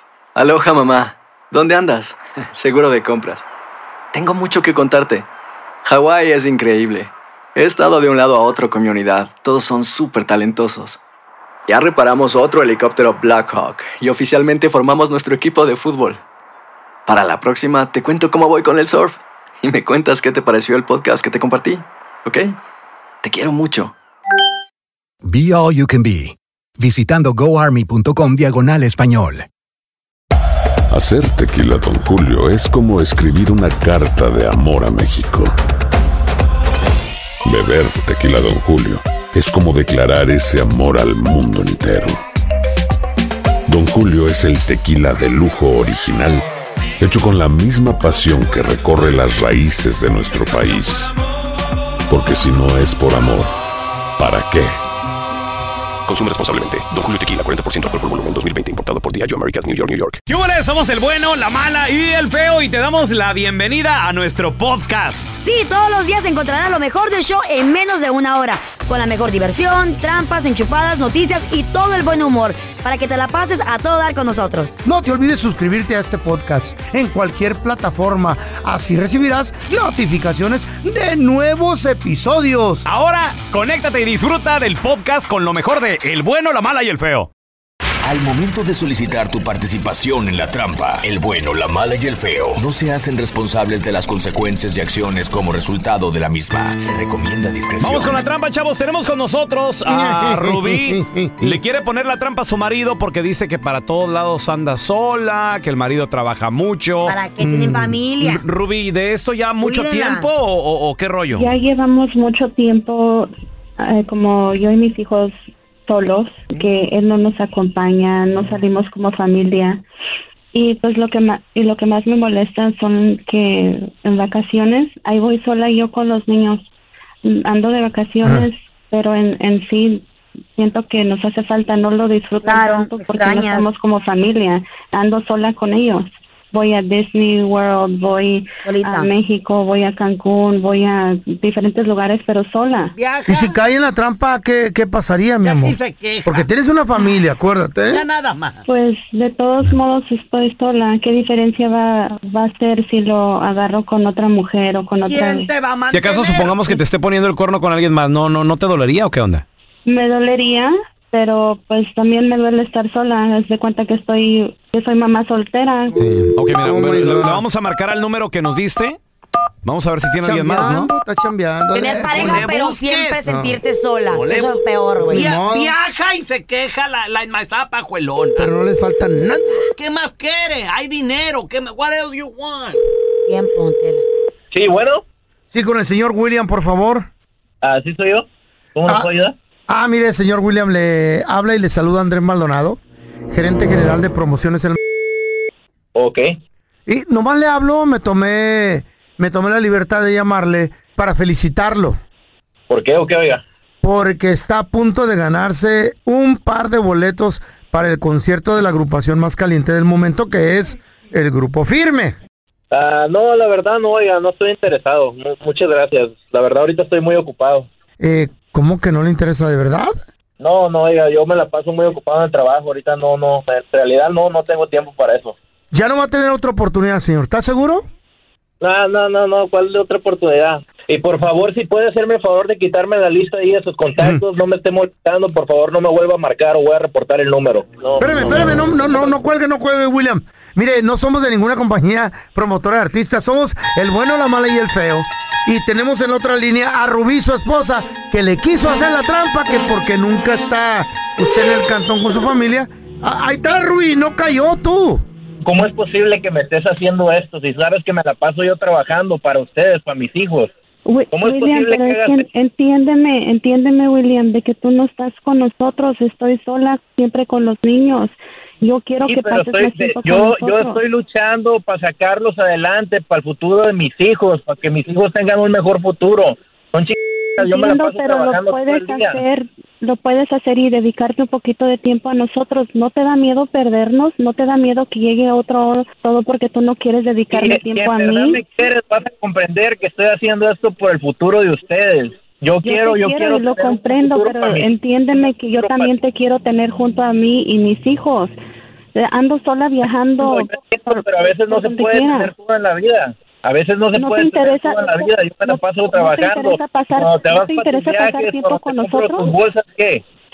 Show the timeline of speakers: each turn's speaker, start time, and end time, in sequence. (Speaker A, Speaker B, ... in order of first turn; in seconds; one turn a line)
Speaker A: 0.4-3.5
Speaker A: 4.1-5.3
Speaker A: 5.8-11.0
Speaker A: 11.7-16.2
Speaker A: 17.1-22.6
Speaker A: 23.2-23.9
Speaker B: 25.2-29.5
Speaker C: 30.9-35.6
Speaker C: 37.5-42.2
Speaker C: 43.7-46.5
Speaker C: 47.0-51.1
Speaker C: 52.1-53.5
Speaker C: 54.2-54.7
Speaker D: 56.1-60.2
Speaker E: 60.3-65.4
Speaker F: 65.4-74.8
Speaker G: 74.8-82.8
Speaker E: 82.9-87.3
Speaker H: 88.0-98.2
Speaker E: 97.8-111.5
Speaker G: 99.9-101.6
Speaker F: 107.0-108.4
Speaker G: 107.4-108.0
Speaker F: 109.6-110.3
Speaker I: 111.3-119.8
Speaker I: 120.5-126.7
Speaker I: 127.2-142.9
Speaker F: 132.4-133.7
Speaker F: 138.6-139.1
Speaker J: 143.0-143.4
Speaker E: 143.1-143.4
Speaker G: 143.3-148.1
Speaker J: 145.5-146.4
Speaker E: 145.6-146.3
Speaker J: 148.0-148.6
Speaker E: 148.0-148.3
Speaker I: 148.7-155.5
Speaker J: 155.1-156.7
Speaker E: 155.1-159.4
Speaker I: 159.9-166.0
Speaker G: 166.0-167.4
Speaker E: 166.0-169.0
Speaker E: 169.6-170.9
Speaker G: 170.2-172.5
Speaker F: 171.7-175.3
Speaker E: 172.2-173.1
Speaker J: 172.3-173.1
Speaker G: 173.2-173.6
Speaker J: 174.1-174.6
Speaker E: 174.2-174.6
Speaker G: 175.1-175.7
Speaker E: 175.2-178.4
Speaker J: 175.2-178.4
Speaker G: 178.4-179.6
Speaker J: 179.7-182.8
Speaker E: 179.9-182.6
Speaker F: 183.3-184.0
Speaker K: 184.5-185.0
Speaker G: 185.5-187.1
Speaker K: 187.6-189.3
Speaker G: 189.7-192.8
Speaker G: 193.3-194.8
Speaker K: 195.9-196.4
Speaker G: 196.9-202.0
Speaker K: 202.7-203.4
Speaker G: 203.8-212.2
Speaker K: 212.7-217.7
Speaker G: 218.0-220.0
Speaker K: 220.4-225.4
Speaker G: 225.7-227.8
Speaker K: 228.6-239.1
Speaker G: 238.0-255.0
Speaker K: 255.4-260.5
Speaker I: 260.9-270.8
Speaker K: 261.1-262.2
Speaker K: 269.1-279.2
Speaker I: 277.4-288.4
Speaker K: 287.3-294.7
Speaker I: 292.6-298.3
Speaker K: 295.6-295.9
Speaker I: 298.9-302.3
Speaker K: 300.2-310.0
Speaker I: 303.9-309.3